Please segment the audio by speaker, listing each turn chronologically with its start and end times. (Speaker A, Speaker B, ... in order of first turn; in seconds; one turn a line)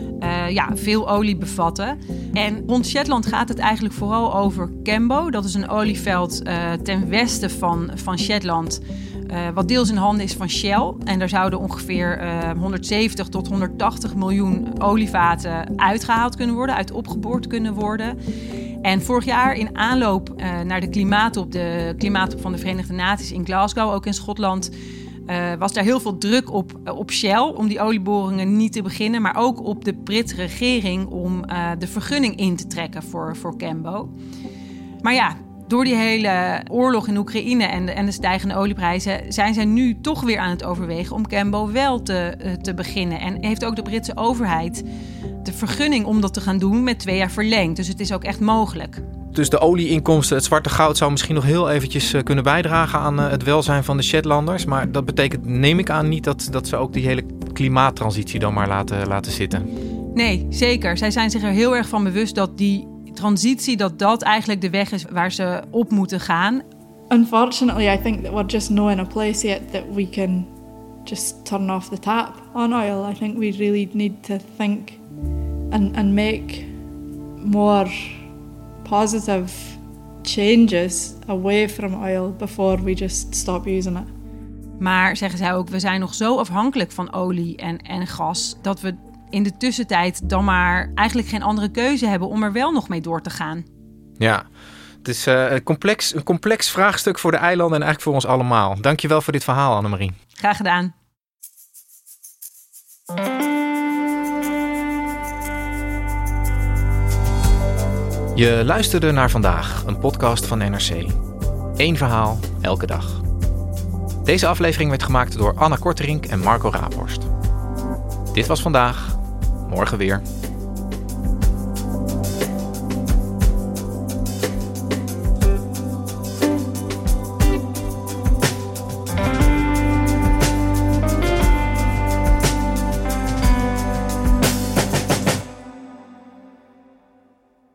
Speaker A: 0.2-18.1
Speaker A: 18.8-24.7
Speaker A: 25.3-34.1
Speaker A: 35.0-44.8
Speaker A: 45.4-49.0
Speaker B: 49.3-59.6
Speaker A: 60.1-66.6
Speaker C: 67.1-70.5
Speaker C: 71.0-75.0
Speaker C: 75.7-76.7
Speaker C: 77.4-78.1
Speaker C: 78.8-84.1
Speaker A: 84.8-93.7
Speaker B: 94.2-94.5
Speaker B: 95.0-100.2
Speaker A: 100.4-100.9
Speaker B: 108.3-111.1
Speaker B: 111.8-113.2
Speaker B: 114.2-117.3
Speaker B: 118.3-119.2
Speaker B: 119.7-120.2